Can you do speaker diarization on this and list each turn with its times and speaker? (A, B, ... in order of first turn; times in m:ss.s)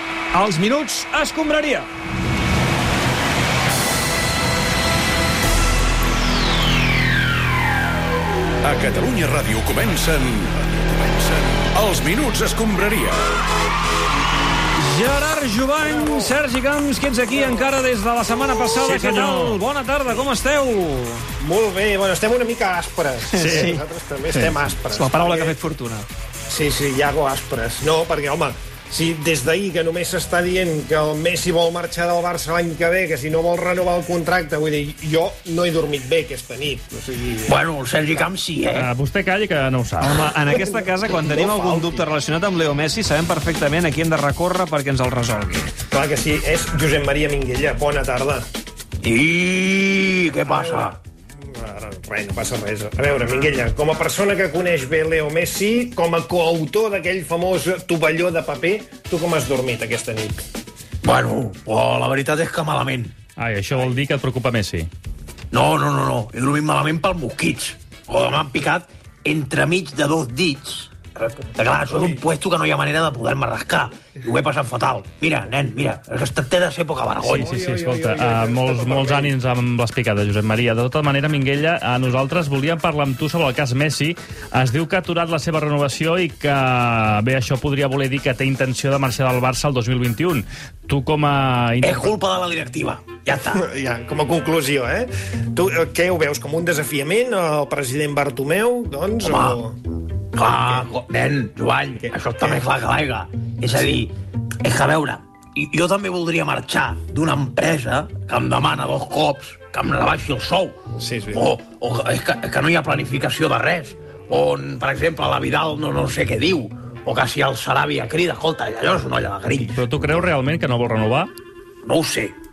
0:00.3-0:01.9 A
0:08.6-0:13.3 B
0:14.8-0:21.2 A
0:15.8-0:16.3 C
0:17.3-0:17.7 C
0:18.8-0:19.6 D
0:21.4-0:25.6 C
0:23.3-0:26.1 A
0:23.4-0:23.7 D
0:26.5-0:37.6 C
0:37.5-0:38.9 E
0:38.7-0:40.2 D
0:40.0-0:45.7 A
0:40.4-0:42.1 C
0:45.9-0:48.5 C
0:49.0-0:51.0 E
0:50.5-1:00.5 C
1:01.0-1:03.1 E
1:03.4-1:04.9 D
1:05.5-1:17.5 E
1:11.9-1:12.2 C
1:17.2-1:32.1 D
1:17.3-1:19.3 C
1:31.8-1:33.6 E
1:33.5-1:39.8 C
1:39.2-1:39.6 E
1:40.3-1:50.8 E
1:40.4-1:40.8 C
1:42.0-1:42.7 C
1:51.0-1:51.5 C
1:51.3-1:59.8 E
1:59.7-2:01.3 D
2:01.8-2:02.4 E